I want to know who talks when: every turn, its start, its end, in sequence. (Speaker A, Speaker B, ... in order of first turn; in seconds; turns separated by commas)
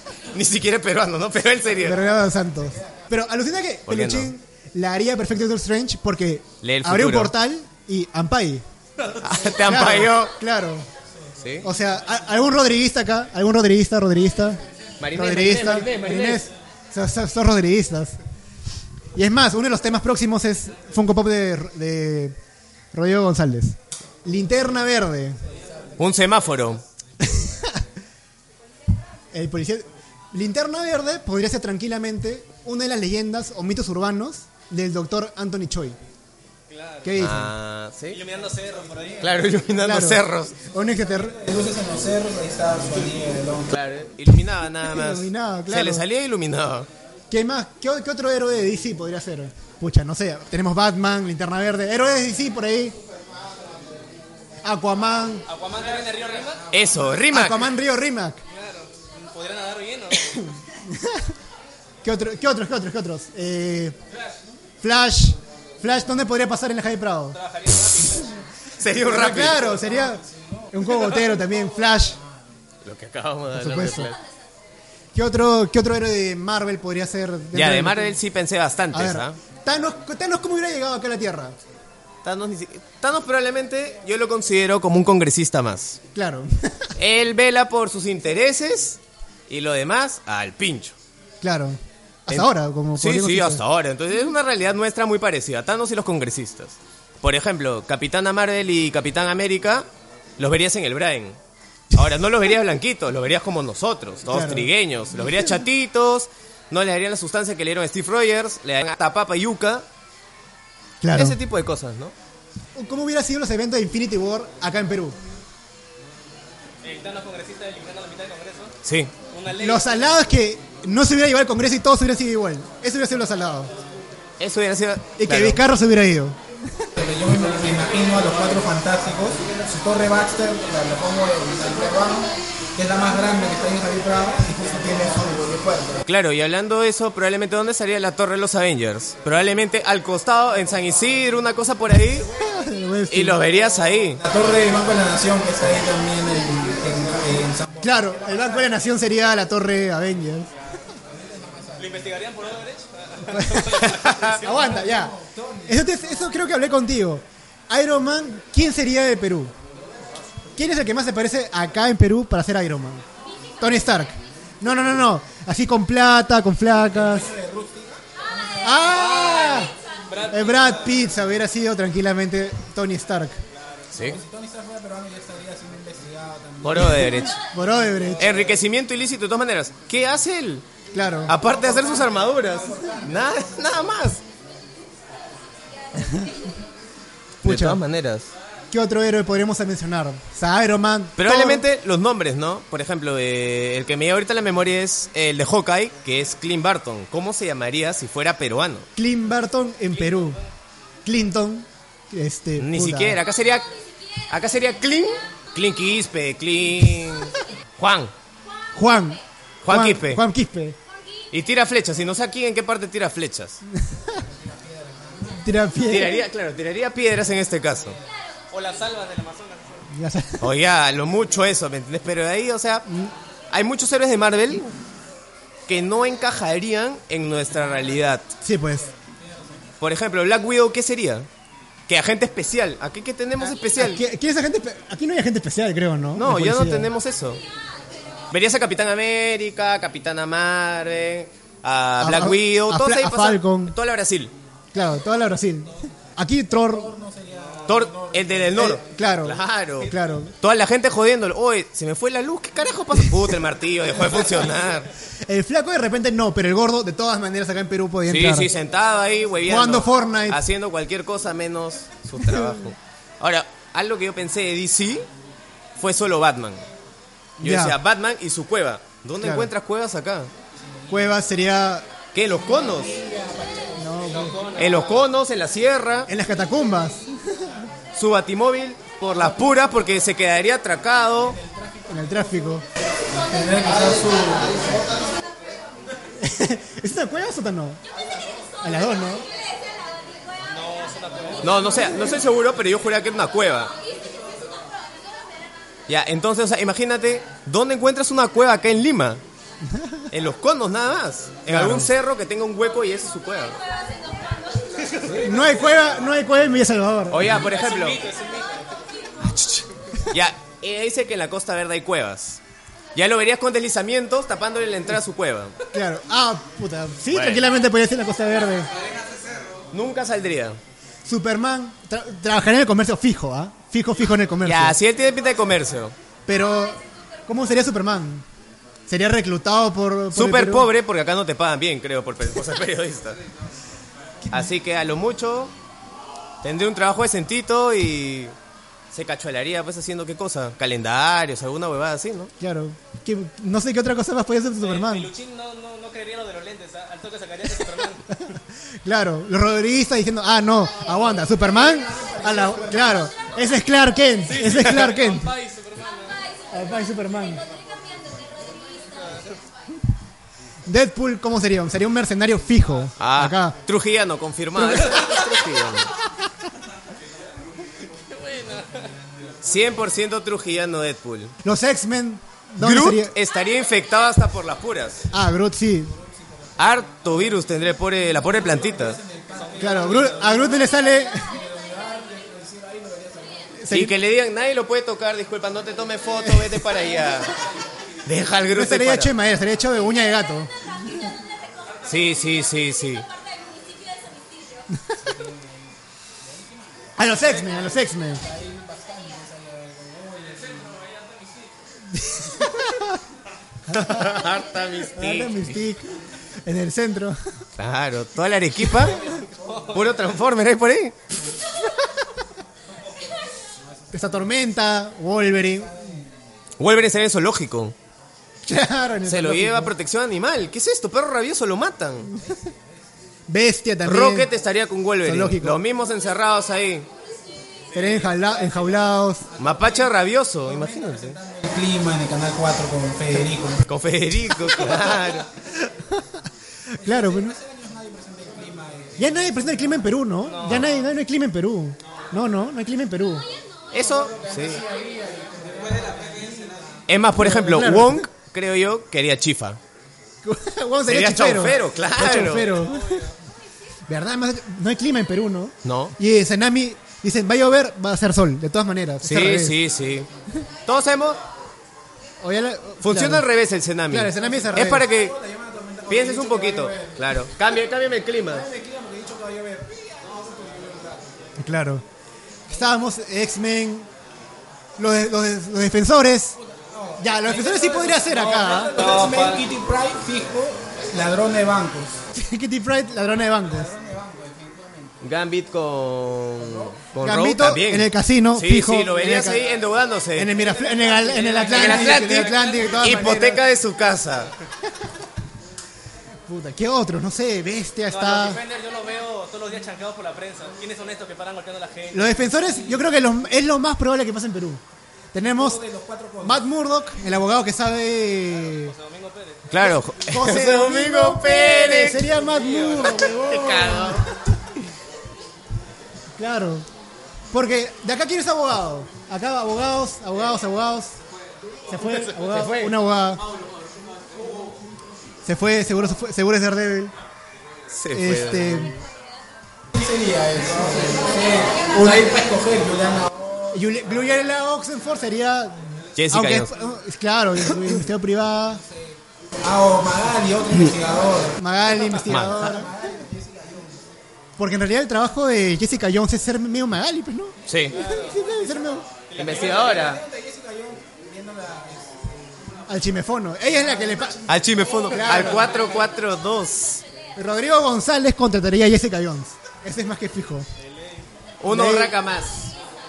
Speaker A: 0.3-2.0, Speaker B: 1.8-8.6, Speaker A: 3.9-4.3, Speaker A: 6.6-7.3, Speaker A: 9.2-10.3, Speaker B: 9.6-10.9, Speaker A: 11.4-11.7, Speaker B: 11.6-14.6, Speaker A: 15.0-16.4, Speaker B: 15.1-18.1, Speaker B: 19.1-22.3, Speaker B: 22.9-25.4, Speaker A: 26.0-26.8, Speaker B: 27.2-27.7, Speaker B: 29.3-36.0, Speaker C: 36.7-37.1, Speaker B: 37.0-37.5, Speaker A: 37.2-38.2, Speaker C: 38.1-39.3, Speaker A: 39.2-40.5, Speaker B: 39.8-41.4, Speaker D: 41.1-43.7, Speaker A: 43.7-46.9, Speaker B: 44.4-46.0, Speaker B: 47.3-53.0, Speaker B: 54.6-55.5, Speaker C: 55.5-56.7, Speaker A: 56.7-57.7, Speaker B: 57.3-58.4, Speaker C: 58.5-60.5, Speaker B: 60.7-61.2, Speaker B: 62.0-63.9, Speaker B: 64.8-67.4, Speaker C: 67.3-68.4, Speaker A: 68.8-69.7, Speaker B: 69.0-72.2, Speaker D: 69.7-71.5, Speaker A: 72.8-74.2, Speaker B: 73.5-74.1, Speaker B: 75.1-78.2, Speaker A: 77.5-79.4, Speaker B: 78.9-81.6, Speaker A: 82.2-86.0, Speaker B: 86.1-86.9, Speaker A: 87.0-90.9, Speaker B: 91.4-93.6, Speaker A: 92.3-99.8, Speaker A: 100.4-101.4, Speaker A: 101.9-109.8, Speaker B: 104.3-104.7, Speaker B: 111.0-111.4, Speaker A: 111.1-112.1, Speaker B: 112.8-115.2, Speaker C: 116.8-118.7, Speaker A: 118.8-119.1, Speaker C: 119.3-119.8, Speaker B: 119.6-123.7, Speaker A: 124.4-125.6, Speaker B: 125.2-126.4, Speaker D: 127.0-136.0, Speaker A: 136.1-142.3, Speaker B: 142.3-143.4, Speaker A: 143.1-144.2, Speaker D: 144.2-148.7, Speaker B: 147.8-150.5, Speaker D: 151.1-152.1, Speaker C: 151.8-154.5, Speaker B: 153.3-159.5, Speaker A: 153.9-154.3, Speaker D: 154.3-155.8, Speaker B: 160.5-163.0, Speaker B: 163.6-167.3, Speaker D: 166.9-168.7, Speaker B: 168.6-169.7, Speaker C: 168.8-170.8, Speaker B: 170.3-173.4, Speaker A: 173.9-174.2, Speaker D: 174.0-177.3, Speaker A: 176.6-177.4, Speaker B: 177.5-178.3, Speaker A: 178.2-180.6, Speaker B: 180.9-181.3, Speaker A: 181.2-184.2, Speaker D: 181.4-183.7, Speaker B: 186.0-186.3, Speaker A: 187.4-188.3, Speaker B: 187.4-187.8, Speaker B: 188.7-191.6, Speaker A: 191.2-198.9, Speaker B: 198.9-200.4, Speaker B: 201.1-203.2, Speaker A: 202.6-203.7, Speaker A: 204.3-208.1, Speaker B: 208.7-210.8, Speaker A: 209.6-210.2, Speaker A: 211.3-213.6, Speaker B: 213.9-214.2, Speaker D: 214.7-215.3, Speaker B: 215.4-216.2, Speaker A: 215.8-218.0, Speaker C: 218.5-219.8, Speaker B: 219.9-220.5, Speaker A: 220.4-222.8, Speaker B: 222.9-223.1, Speaker A: 223.5-224.7, Speaker A: 225.7-228.3, Speaker B: 228.4-228.9, Speaker A: 229.8-231.3, Speaker A: 231.9-234.0, Speaker B: 233.4-236.9, Speaker A: 236.2-237.4, Speaker A: 238.3-244.3, Speaker B: 242.0-243.7, Speaker B: 244.7-246.9, Speaker D: 246.7-248.8, Speaker A: 247.7-254.9, Speaker B: 248.6-250.3, Speaker B: 255.3-258.5, Speaker A: 258.1-265.1, Speaker B: 259.4-260.4, Speaker B: 262.2-262.6, Speaker A: 265.8-266.6, Speaker B: 267.4-267.8, Speaker A: 267.4-270.3, Speaker B: 269.2-269.5, Speaker D: 270.6-271.0, Speaker B: 270.9-271.9, Speaker A: 272.1-272.9, Speaker D: 272.3-274.5, Speaker B: 273.8-274.4, Speaker C: 274.2-274.9, Speaker A: 274.6-276.1, Speaker B: 276.1-277.6, Speaker A: 277.9-281.4, Speaker D: 281.4-282.2, Speaker B: 281.9-282.6, Speaker D: 283.3-284.9, Speaker B: 286.2-287.8, Speaker B: 288.6-289.2, Speaker C: 290.5-291.8, Speaker A: 291.4-293.7, Speaker A: 295.9-299.2, Speaker B: 299.7-300.0, Speaker A: 300.1-303.6, Speaker B: 301.5-301.9, Speaker B: 305.1-307.4, Speaker A: 307.1-308.0, Speaker C: 307.4-308.7, Speaker B: 309.3-309.6, Speaker A: 310.1-312.4, Speaker A: 312.9-315.5, Speaker B: 315.7-318.7, Speaker A: 317.1-317.5, Speaker A: 319.7-320.6, Speaker B: 321.0-324.8, Speaker A: 324.4-325.9, Speaker B: 326.3-328.2, Speaker B: 328.9-330.7, Speaker A: 330.1-333.2, Speaker A: 334.3-335.5, Speaker A: 336.4-338.3, Speaker A: 338.9-342.3, Speaker B: 342.4-345.1, Speaker C: 344.6-348.2, Speaker B: 348.1-355.3, Speaker D: 351.5-352.9, Speaker C: 354.2-356.3, Speaker B: 356.5-357.4, Speaker B: 360.6-363.6, Speaker A: 363.0-365.9, Speaker C: 368.1-368.9, Speaker A: 369.4-371.4, Speaker B: 371.4-373.1, Speaker A: 372.6-375.0, Speaker B: 375.1-375.9, Speaker D: 376.0-377.1, Speaker A: 376.6-379.0, Speaker D: 378.3-383.5, Speaker C: 379.3-380.1, Speaker B: 379.6-381.4, Speaker B: 383.6-383.9, Speaker A: 383.7-387.3, Speaker B: 386.2-386.6, Speaker A: 388.0-389.1, Speaker B: 388.5-390.5, Speaker A: 391.8-393.0, Speaker D: 395.0-395.7, Speaker D: 396.2-397.7, Speaker B: 397.0-398.2, Speaker D: 398.2-400.8, Speaker B: 401.9-403.0, Speaker B: 403.7-404.2, Speaker A: 403.7-405.5, Speaker B: 404.9-407.2, Speaker A: 407.6-409.0, Speaker C: 409.4-409.8, Speaker A: 409.7-410.9, Speaker B: 413.9-415.8, Speaker A: 416.6-417.7, Speaker B: 418.4-419.7, Speaker A: 419.0-422.1, Speaker B: 423.3-424.3, Speaker A: 423.8-426.9, Speaker B: 425.0-425.6, Speaker C: 427.7-428.6, Speaker B: 427.7-429.2, Speaker D: 429.4-433.6, Speaker A: 429.4-431.2, Speaker A: 433.7-435.3, Speaker B: 434.4-434.8, Speaker B: 435.8-436.2, Speaker B: 436.8-437.4, Speaker D: 436.8-439.8, Speaker B: 439.0-443.3, Speaker C: 440.2-440.7, Speaker A: 443.7-444.6, Speaker D: 443.8-446.9, Speaker A: 446.9-449.6, Speaker B: 447.2-448.1, Speaker B: 450.2-453.1, Speaker A: 450.9-452.6, Speaker C: 452.7-453.1, Speaker B: 453.9-459.6, Speaker A: 455.6-455.9, Speaker A: 459.0-460.1, Speaker A: 460.6-461.2, Speaker B: 462.2-463.3, Speaker A: 462.8-465.1, Speaker B: 463.9-464.8, Speaker D: 464.1-467.3, Speaker A: 465.9-468.5, Speaker D: 468.3-471.1, Speaker B: 471.4-471.8, Speaker B: 472.5-473.9, Speaker B: 474.8-476.4, Speaker D: 476.4-482.0, Speaker B: 477.0-478.8, Speaker C: 478.7-479.4, Speaker B: 482.1-483.7, Speaker D: 483.5-485.0, Speaker A: 485.0-490.3, Speaker D: 486.4-486.8, Speaker B: 487.0-489.4, Speaker B: 490.2-493.4, Speaker D: 490.6-492.0, Speaker C: 490.9-492.8, Speaker A: 491.5-494.3, Speaker B: 496.3-498.4, Speaker C: 497.9-502.1, Speaker B: 501.9-504.6, Speaker B: 505.1-505.6, Speaker D: 505.2-506.4, Speaker B: 506.2-508.7, Speaker C: 508.6-509.4, Speaker A: 509.5-512.1, Speaker B: 509.6-514.6, Speaker C: 512.2-513.0, Speaker A: 512.8-514.0, Speaker B: 516.2-516.6, Speaker B: 517.3-520.9, Speaker B: 521.7-523.2, Speaker A: 522.3-522.7, Speaker B: 525.2-526.9, Speaker A: 527.7-528.7, Speaker B: 527.9-528.8, Speaker D: 529.7-533.6, Speaker B: 531.7-532.1, Speaker B: 533.5-538.6, Speaker A: 536.0-536.5, Speaker D: 538.7-543.8, Speaker B: 541.4-542.8, Speaker A: 542.0-542.4, Speaker B: 544.4-548.9, Speaker A: 547.5-547.8, Speaker C: 547.7-548.2, Speaker C: 549.1-549.8, Speaker A: 549.1-550.0, Speaker D: 549.2-552.6, Speaker B: 552.7-554.2, Speaker D: 553.6-555.8, Speaker A: 554.3-556.8, Speaker B: 554.9-555.5, Speaker B: 557.1-560.5, Speaker A: 561.4-562.5, Speaker B: 561.5-561.9